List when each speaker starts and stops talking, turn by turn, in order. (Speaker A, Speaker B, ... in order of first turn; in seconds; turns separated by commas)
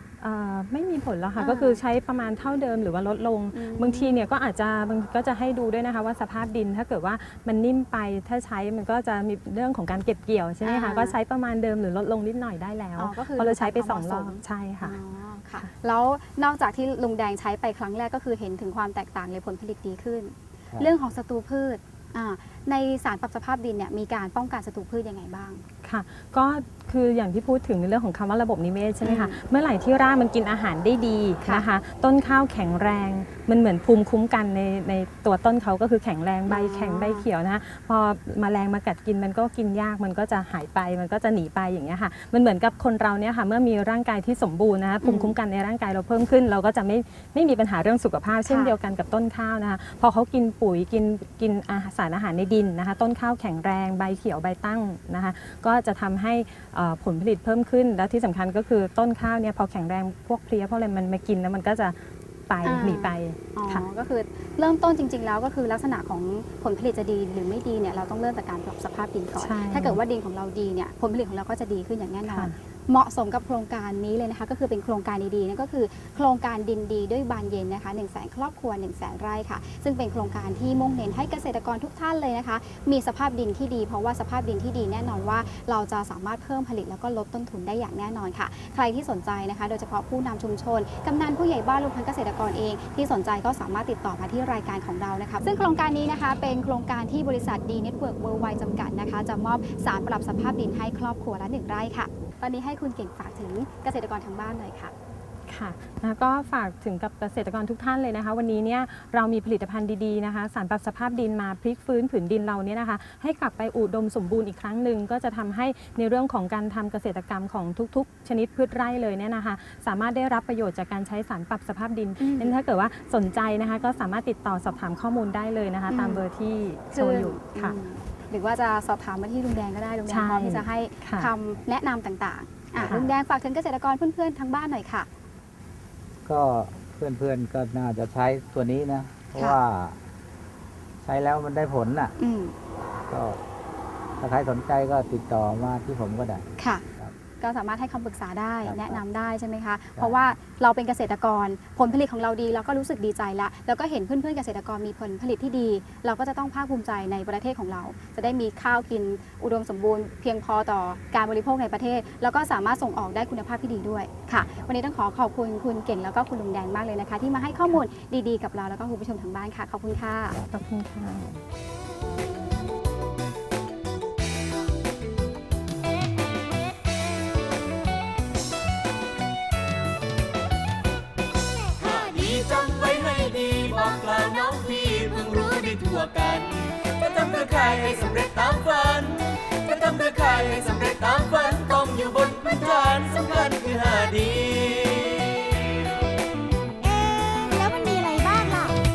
Speaker A: 0.2-15.0, Speaker B: 1.4-1.8, Speaker B: 3.5-4.2, Speaker B: 10.6-11.2, Speaker B: 13.0-25.6, Speaker A: 25.8-63.9, Speaker B: 29.0-29.3, Speaker B: 36.5-37.2, Speaker B: 45.0-45.3, Speaker B: 48.5-48.7, Speaker B: 62.6-104.9, Speaker A: 69.4-70.0, Speaker A: 72.3-72.6, Speaker A: 105.5-127.8, Speaker B: 122.2-122.5, Speaker B: 125.9-126.2, Speaker B: 126.9-135.1, Speaker A: 130.1-131.3, Speaker C: 132.8-133.1, Speaker A: 132.8-133.1, Speaker C: 136.2-140.0, Speaker C: 141.0-142.2, Speaker B: 142.2-142.6, Speaker C: 143.1-143.4, Speaker C: 144.2-147.1, Speaker B: 146.6-146.8, Speaker B: 147.4-170.4, Speaker C: 148.6-149.0, Speaker C: 150.0-150.3, Speaker A: 170.4-171.4, Speaker D: 181.8-194.9, Speaker E: 196.8-198.8